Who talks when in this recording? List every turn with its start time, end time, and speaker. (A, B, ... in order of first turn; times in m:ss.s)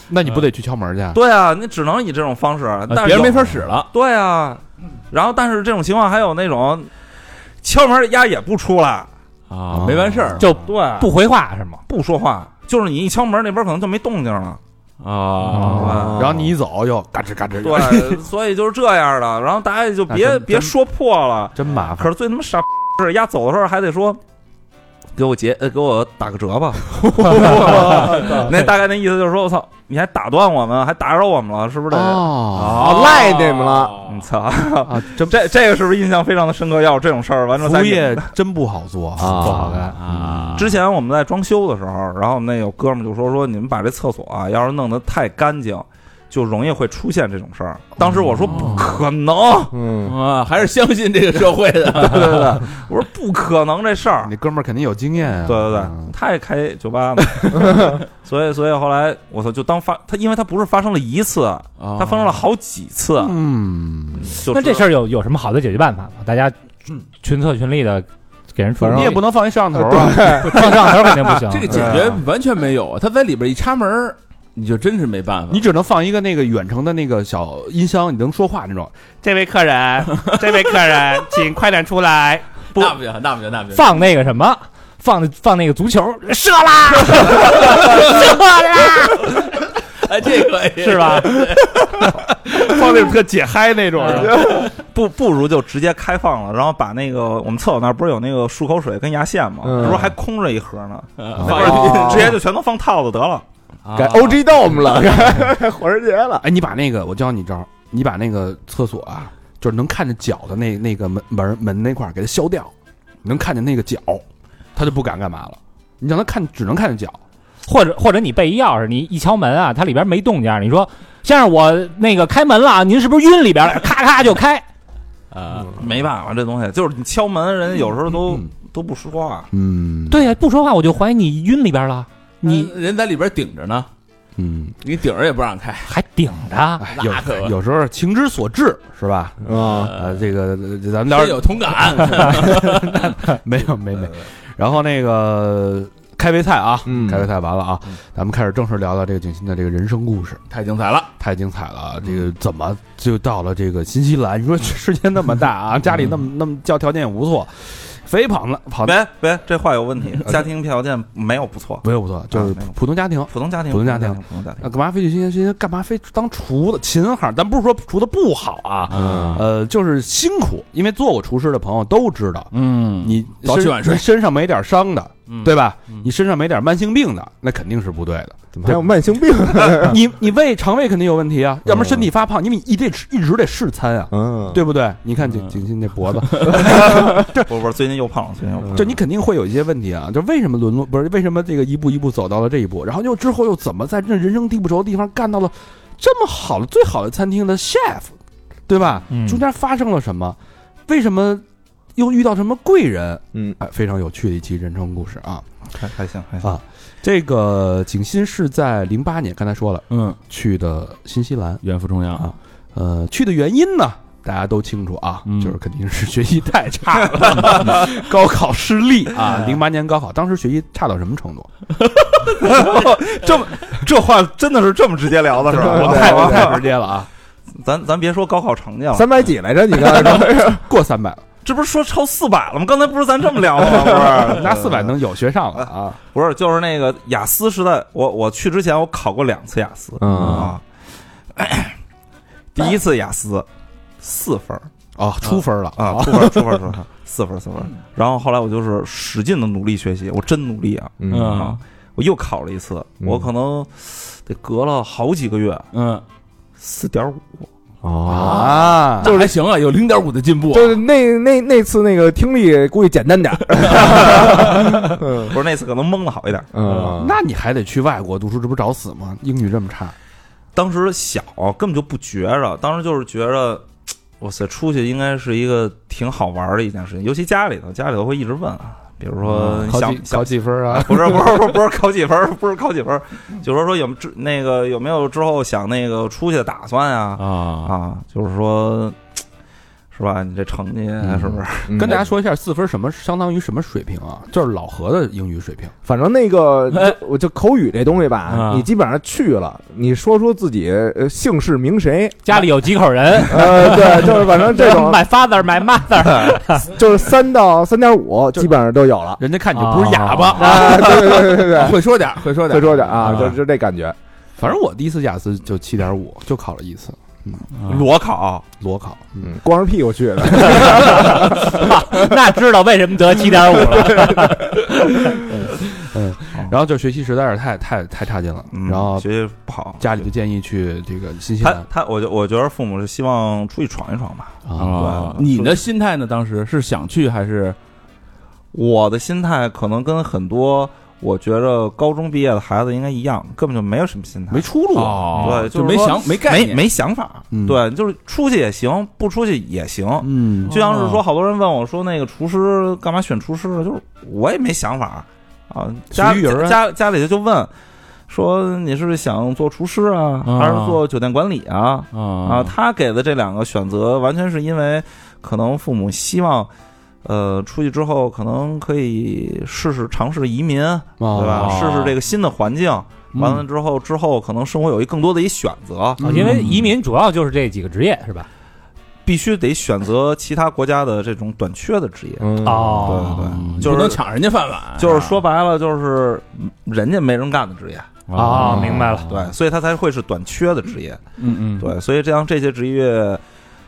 0:00.1-0:01.2 A
0:01.1-0:06.9 B
0:02.9-0:03.9 C
0:07.6-0:09.1 B
0:09.5-0:10.5 C
0:09.7-0:10.6 A
0:10.4-0:11.8 D
0:10.6-0:11.1 B
0:11.9-0:14.6 B
0:15.0-0:16.1 C
0:15.6-0:18.2 A
0:15.6-0:16.5 B
0:15.7-0:16.0 D
0:15.8-0:16.2 E
0:17.6-0:24.2 B
0:20.1-0:20.7 A
0:21.6-0:22.1 A
0:25.2-0:32.3 B
0:31.9-0:33.0 A
0:32.5-0:34.2 C
0:32.8-0:34.0 E
0:34.0-0:38.3 B
0:34.8-0:35.4 A
0:37.6-0:40.7 A
0:39.2-0:39.9 E
0:39.4-0:39.9 D
0:40.0-0:40.8 C
0:40.6-0:49.7 B
0:48.0-0:48.9 A
0:48.4-0:48.9 C
0:49.7-0:50.2 E
0:50.0-0:52.6 C
0:52.0-0:54.3 B
0:54.2-0:56.1 A
0:55.4-1:03.4 B
1:01.8-1:02.4 C
1:03.2-1:04.4 A
1:04.2-1:04.9 B
1:04.5-1:06.6 D
1:07.2-1:09.2 D
1:08.8-1:10.7 A
1:08.8-1:09.2 E
1:09.7-1:10.5 E
1:10.3-1:12.0 D
1:11.4-1:15.6 C
1:11.7-1:12.2 A
1:15.5-1:22.5 A
1:22.7-1:24.0 C
1:23.7-1:29.4 D
1:30.0-1:31.8 C
1:30.8-1:31.5 D
1:31.9-1:34.4 A
1:34.4-1:43.4 B
1:39.6-1:40.1 E
1:41.2-1:42.4 C
1:41.4-1:41.9 A
1:41.6-1:42.3 E
1:43.9-1:44.4 C
1:44.0-1:46.4 E
1:46.4-1:52.7 A
1:53.2-1:54.2 A
1:54.8-1:57.2 A
1:57.7-2:04.6 D
2:05.3-2:05.7 C
2:05.8-2:09.5 B
2:09.5-2:10.3 A
2:10.1-2:12.7 D
2:12.4-2:13.9 C
2:14.4-2:14.8 A
2:14.8-2:16.0 C
2:15.9-2:16.9 D
2:16.8-2:30.4 A
2:16.9-2:17.5 C
2:19.4-2:20.0 E
2:19.6-2:20.2 C
2:21.1-2:23.2 C
2:26.9-2:27.3 E
2:30.5-2:31.1 C
2:31.2-2:39.0 A
2:38.8-2:42.7 B
2:41.8-2:58.9 A
2:43.3-2:44.7 B
2:48.9-2:49.4 C
2:49.0-2:49.4 E
2:52.5-2:54.0 C
2:55.3-2:56.1 C
2:58.5-3:00.0 E
2:59.5-3:07.5 A
3:04.1-3:04.6 E
3:05.2-3:06.6 C
3:06.6-3:09.0 B
3:08.7-3:18.1 A
3:18.7-3:21.4 A
3:19.1-3:19.4 D
3:22.0-3:25.5 A
3:25.7-3:26.5 B
3:26.4-3:41.5 A
3:29.9-3:30.2 C
3:31.6-3:32.3 C
3:35.3-3:35.6 C
3:39.2-3:39.6 C
3:42.2-3:46.7 B
3:45.5-3:47.1 A
3:45.7-3:46.5 E
3:47.6-3:49.2 B
3:48.9-3:50.6 E
3:49.8-3:51.2 A
3:51.4-3:55.0 B
3:53.8-3:56.0 A
3:55.6-4:00.6 B
4:00.0-4:00.5 E
4:00.2-4:00.5 C
4:01.4-4:01.8 B
4:02.5-4:03.5 B
4:04.0-4:04.7 B
4:05.0-4:06.4 A
4:05.8-4:15.7 B
4:11.0-4:11.5 E
4:11.1-4:11.6 C
4:15.7-4:16.0 C
4:16.6-4:17.5 B
4:17.8-4:19.3 E
4:18.1-4:19.2 A
4:18.2-4:20.8 C
4:20.5-4:25.3 E
4:23.9-4:24.6 B
4:25.2-4:26.5 B
4:26.5-4:27.2 E
4:26.7-4:30.0 A
4:30.6-4:33.7 B
4:34.2-4:49.0 B
4:39.2-4:41.4 A
4:47.2-4:47.7 C
4:49.9-4:52.0 B
4:51.0-4:55.7 A
4:51.7-4:52.0 E
4:55.8-5:02.2 E
4:58.3-4:58.7 C
5:02.2-5:06.7 D
5:03.3-5:05.0 E
5:06.6-5:09.2 E
5:09.2-5:11.0 A
5:09.5-5:10.7 D
5:10.4-5:11.8 E
5:10.6-5:13.4 C
5:12.4-5:14.0 E
5:14.4-5:17.4 A
5:17.6-5:17.8 C
5:17.6-5:18.4 B
5:18.6-5:19.3 A
5:19.2-5:21.7 E
5:20.6-5:25.2 D
5:25.0-5:29.1 A
5:28.5-5:29.9 B
5:29.8-5:31.7 A
5:31.4-5:35.6 B
5:34.5-5:35.1 A
5:34.6-5:37.6 C
5:38.5-5:44.5 B
5:44.3-5:45.4 A
5:44.8-5:46.7 C
5:45.1-5:57.5 B
5:47.3-5:47.6 A
5:50.0-5:50.6 A
5:50.5-5:51.0 C
5:55.9-5:56.6 A
5:58.1-6:06.5 B
6:00.2-6:00.8 C
6:01.9-6:02.5 C
6:07.0-6:16.0 B
6:11.0-6:11.8 A
6:11.3-6:12.0 C
6:16.0-6:18.3 D
6:16.0-6:16.6 A
6:16.2-6:16.7 C
6:19.1-6:24.0 B
6:22.2-6:22.9 E
6:22.4-6:23.1 D
6:22.9-6:25.2 C
6:23.2-6:23.7 A
6:24.8-6:27.9 B
6:28.1-6:29.3 C
6:28.1-6:29.0 A
6:28.3-6:29.1 D
6:29.1-6:31.0 B
6:31.2-6:31.7 C
6:31.6-6:33.2 B